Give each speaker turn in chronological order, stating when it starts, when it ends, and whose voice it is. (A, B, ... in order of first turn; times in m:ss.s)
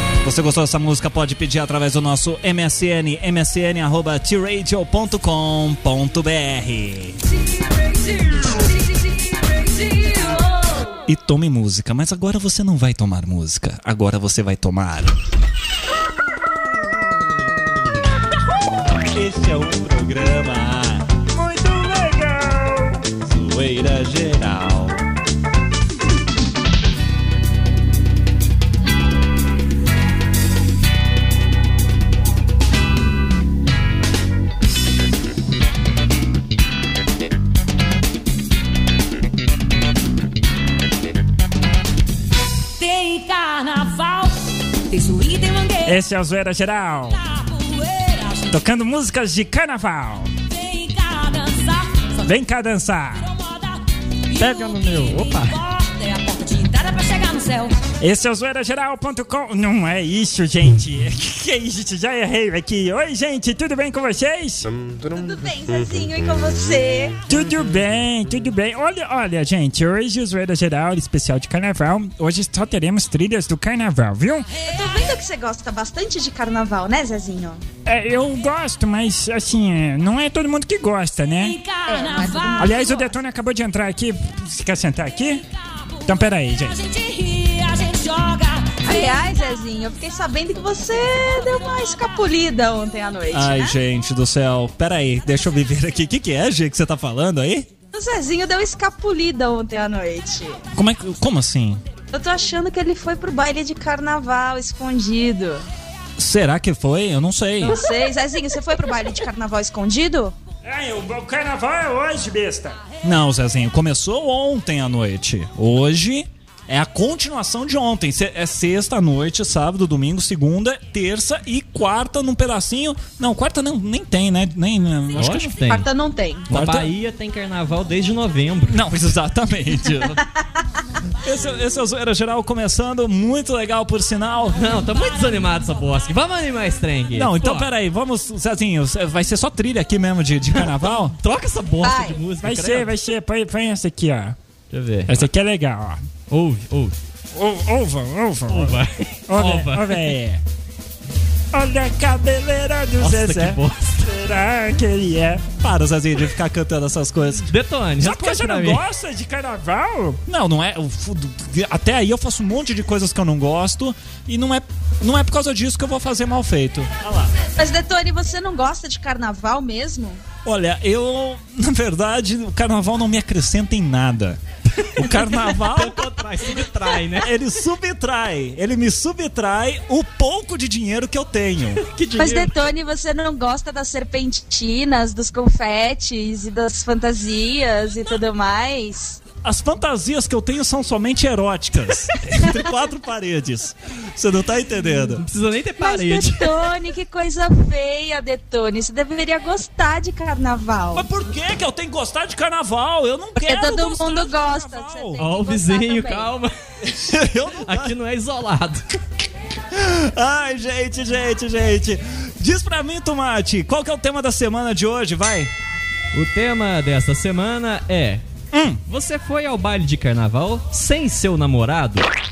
0:00.2-0:07.2 A
0:07.3-0:10.9 B
0:11.1-0:15.2 A
0:19.1-0:21.0 A
0:21.3-0:23.1 C
0:23.2-0:25.0 A
0:42.8-0:46.0 D
0:45.8-0:47.2 C
0:47.0-0:48.6 D
0:48.5-0:50.3 C
0:50.5-0:52.4 D
0:52.2-0:53.3 C
0:53.1-0:57.8 D
0:54.4-0:55.6 E
0:58.0-1:04.8 C
1:05.0-1:07.2 B
1:07.3-1:14.5 C
1:14.6-1:17.6 B
1:17.9-1:21.6 C
1:21.4-1:23.0 D
1:21.9-1:23.1 B
1:22.6-1:25.4 C
1:25.8-1:29.2 D
1:26.0-1:26.8 C
1:28.8-1:33.8 B
1:33.3-1:37.7 A
1:37.9-1:40.6 B
1:40.7-1:41.8 A
1:42.1-1:45.6 B
1:46.2-1:47.8 A
1:47.6-1:50.4 B
1:50.6-1:52.8 C
1:53.0-2:05.6 A
2:05.1-2:05.9 E
2:05.7-2:06.5 B
2:06.5-2:06.9 A
2:06.5-2:08.8 E
2:08.7-2:10.2 A
2:11.2-2:14.6 A
2:14.5-2:17.7 E
2:17.1-2:21.2 A
2:20.5-2:23.0 E
2:21.8-2:22.2 B
2:22.4-2:24.4 C
2:24.7-2:25.3 E
2:25.1-2:26.0 C
2:26.3-2:27.0 E
2:27.4-2:30.4 C
2:28.5-2:30.2 E
2:31.5-2:35.5 C
2:33.0-2:34.1 E
2:35.6-2:37.5 A
2:37.4-2:38.8 E
2:38.0-2:40.2 C
2:40.3-2:47.3 A
2:47.6-2:50.2 B
2:50.4-2:54.4 A
2:54.8-2:57.3 E
2:55.0-2:56.2 A
2:57.2-3:01.8 A
3:01.8-3:02.6 E
3:02.2-3:09.2 B
3:09.4-3:15.2 A
3:15.2-3:16.5 E
3:15.8-3:21.1 B
3:20.9-3:25.2 A
3:23.4-3:26.3 B
3:25.2-3:26.5 E
3:26.9-3:27.9 A
3:27.6-3:28.8 E
3:29.7-3:35.5 A
3:36.1-3:38.2 E
3:38.5-3:38.8 A
3:38.9-3:42.1 E